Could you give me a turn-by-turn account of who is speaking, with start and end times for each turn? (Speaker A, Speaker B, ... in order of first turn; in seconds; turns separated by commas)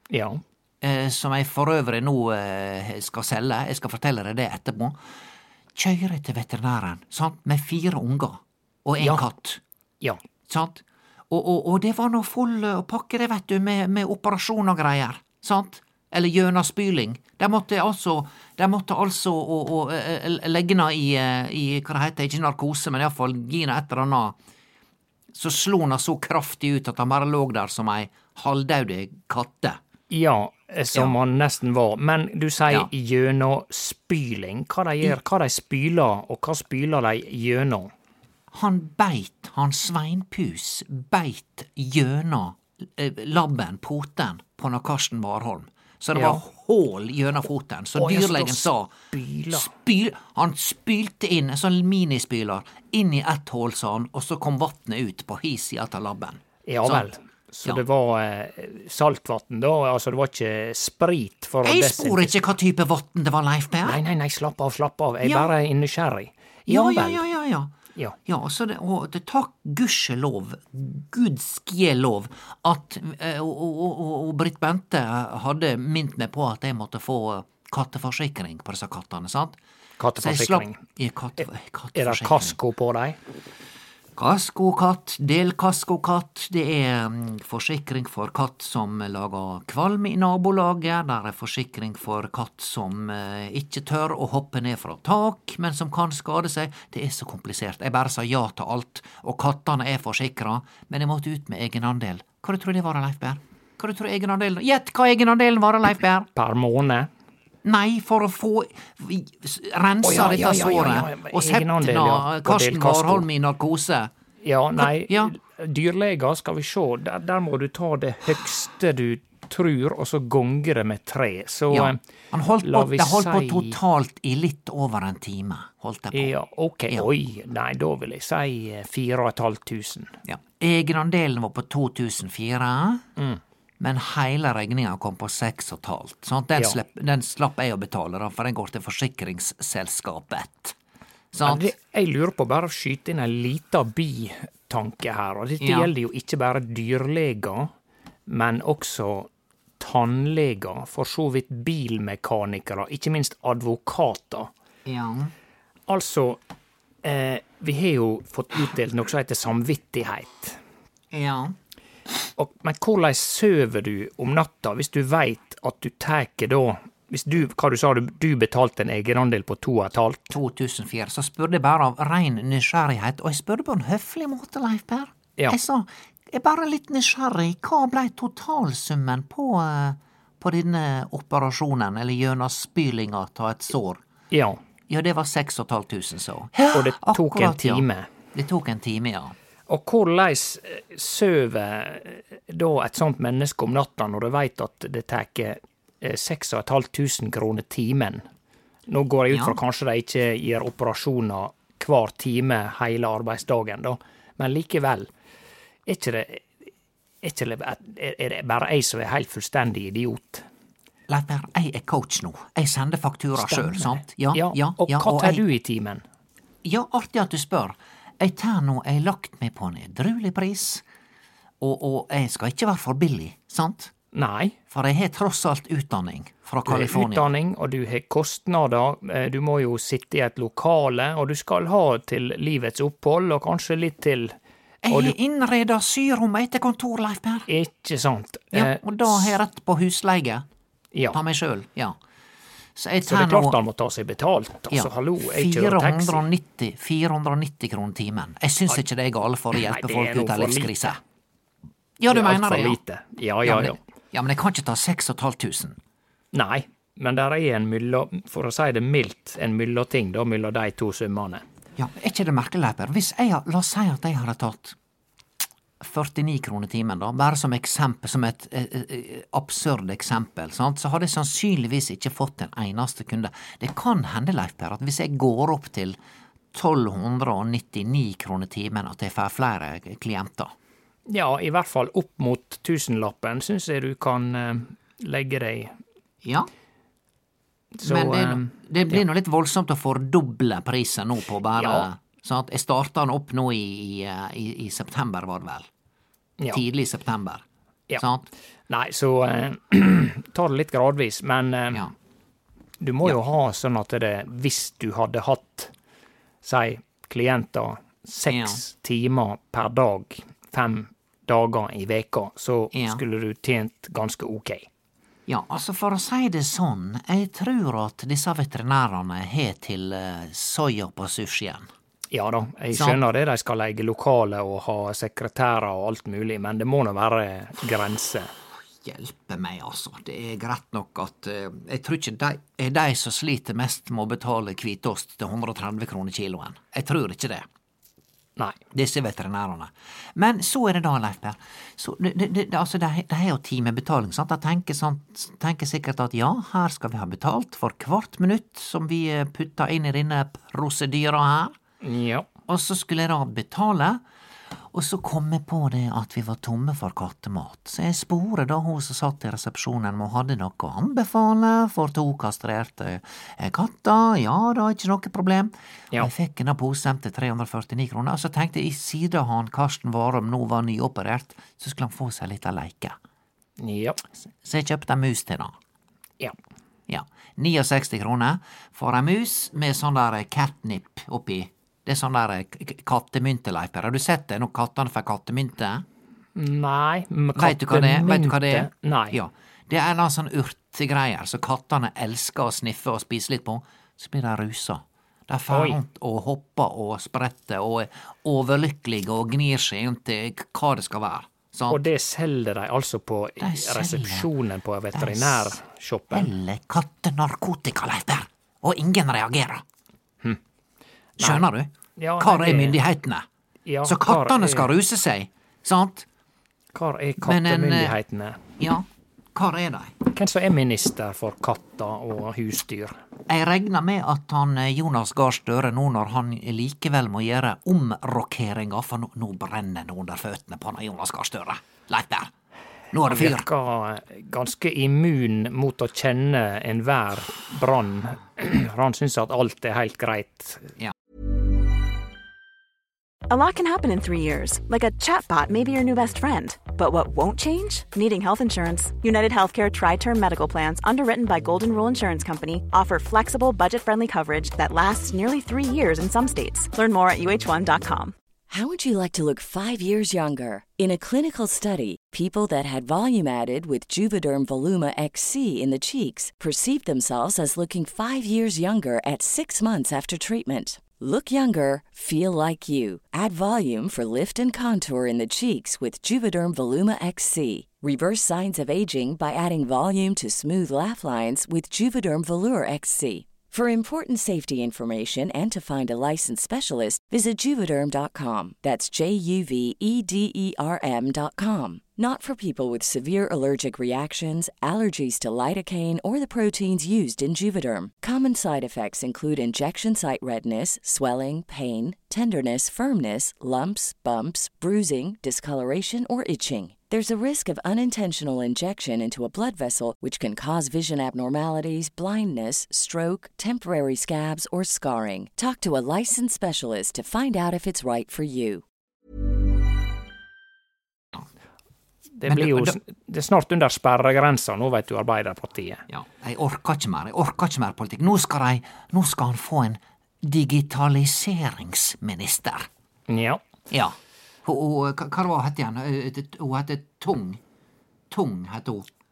Speaker A: 0.1-0.4, Speaker B: 0.8-5.0, Speaker B: 5.8-9.6, Speaker A: 9.0-9.2, Speaker B: 10.5-24.4, Speaker B: 25.3-29.8, Speaker A: 30.1-37.9, Speaker B: 38.5-49.0, Speaker A: 46.1-46.4, Speaker A: 48.0-49.7, Speaker B: 49.5-57.1, Speaker A: 56.7-62.4, Speaker B: 61.6-64.0, Speaker A: 63.8-67.2, Speaker B: 65.2-65.5, Speaker B: 66.7-67.7, Speaker B: 68.3-79.6, Speaker A: 80.0-80.8, Speaker B: 80.2-82.5, Speaker A: 81.4-83.2, Speaker B: 84.2-106.3, Speaker A: 106.4-107.1, Speaker B: 107.6-114.1, Speaker A: 110.0-113.3, Speaker A: 114.4-122.0, Speaker B: 114.8-115.3, Speaker B: 121.7-126.3, Speaker A: 122.6-123.8, Speaker A: 126.1-130.2, Speaker B: 130.3-133.1, Speaker B: 133.8-140.8, Speaker B: 141.3-141.7, Speaker A: 141.4-147.7, Speaker B: 145.6-145.9, Speaker A: 148.3-149.3, Speaker A: 149.8-154.5, Speaker B: 154.9-155.3, Speaker A: 155.9-156.4, Speaker A: 157.0-160.6, Speaker B: 161.1-161.6, Speaker A: 162.4-170.4, Speaker B: 170.3-184.0, Speaker A: 184.3-184.6, Speaker B: 184.9-189.3, Speaker A: 186.7-188.1, Speaker A: 189.7-198.3, Speaker A: 198.9-205.1, Speaker B: 199.3-199.6, Speaker A: 205.9-206.6, Speaker A: 207.2-210.5, Speaker B: 211.1-215.4, Speaker A: 213.3-216.0, Speaker B: 216.6-220.8, Speaker B: 221.6-223.9, Speaker A: 224.1-224.6, Speaker B: 224.7-227.3, Speaker A: 226.7-234.4, Speaker B: 234.8-237.5, Speaker A: 234.9-235.2, Speaker A: 237.5-239.4, Speaker B: 238.5-240.5, Speaker A: 240.9-241.2, Speaker B: 241.1-242.0, Speaker B: 242.8-243.6, Speaker A: 243.0-246.2, Speaker B: 244.7-251.0, Speaker A: 249.5-250.9, Speaker B: 252.0-252.8, Speaker A: 252.1-253.8, Speaker B: 253.4-255.8, Speaker A: 256.3-261.4, Speaker B: 261.8-264.8, Speaker B: 265.8-276.0, Speaker B: 276.5-280.5, Speaker A: 281.1-285.8, Speaker B: 286.2-286.5, Speaker A: 287.8-289.0, Speaker B: 287.8-295.7, Speaker A: 291.6-291.9, Speaker B: 296.5-297.4, Speaker B: 298.0-298.3, Speaker A: 298.7-301.9, Speaker A: 302.8-305.7, Speaker A: 306.4-314.7, Speaker B: 308.3-308.6, Speaker B: 312.7-313.0, Speaker B: 315.3-321.7, Speaker A: 322.1-328.3, Speaker B: 322.7-323.0, Speaker B: 328.8-337.5, Speaker B: 338.7-351.6, Speaker A: 351.8-352.3, Speaker B: 352.5-354.0, Speaker B: 354.7-373.0, Speaker A: 373.6-374.0, Speaker B: 374.4-375.5, Speaker B: 376.9-385.9, Speaker A: 386.4-389.2, Speaker B: 387.4-401.8, Speaker A: 395.5-395.8, Speaker A: 401.7-406.3, Speaker B: 403.4-404.3, Speaker B: 404.9-405.6, Speaker B: 406.1-409.6, Speaker B: 411.2-413.3, Speaker A: 411.2-411.5, Speaker A: 412.0-412.8, Speaker A: 413.7-414.7, Speaker B: 413.9-416.1, Speaker A: 416.7-418.4, Speaker B: 417.2-418.0, Speaker B: 418.6-419.9, Speaker A: 420.1-423.0, Speaker B: 423.3-432.3, Speaker B: 432.9-433.5, Speaker A: 433.1-440.7, Speaker C: 443.3-458.1, Speaker D: 458.5-518.6, Speaker A: 522.2-525.9, Speaker B: 522.2-522.8, Speaker B: 525.9-532.7, Speaker A: 533.1-533.4, Speaker B: 533.7-537.4, Speaker B: 538.1-538.9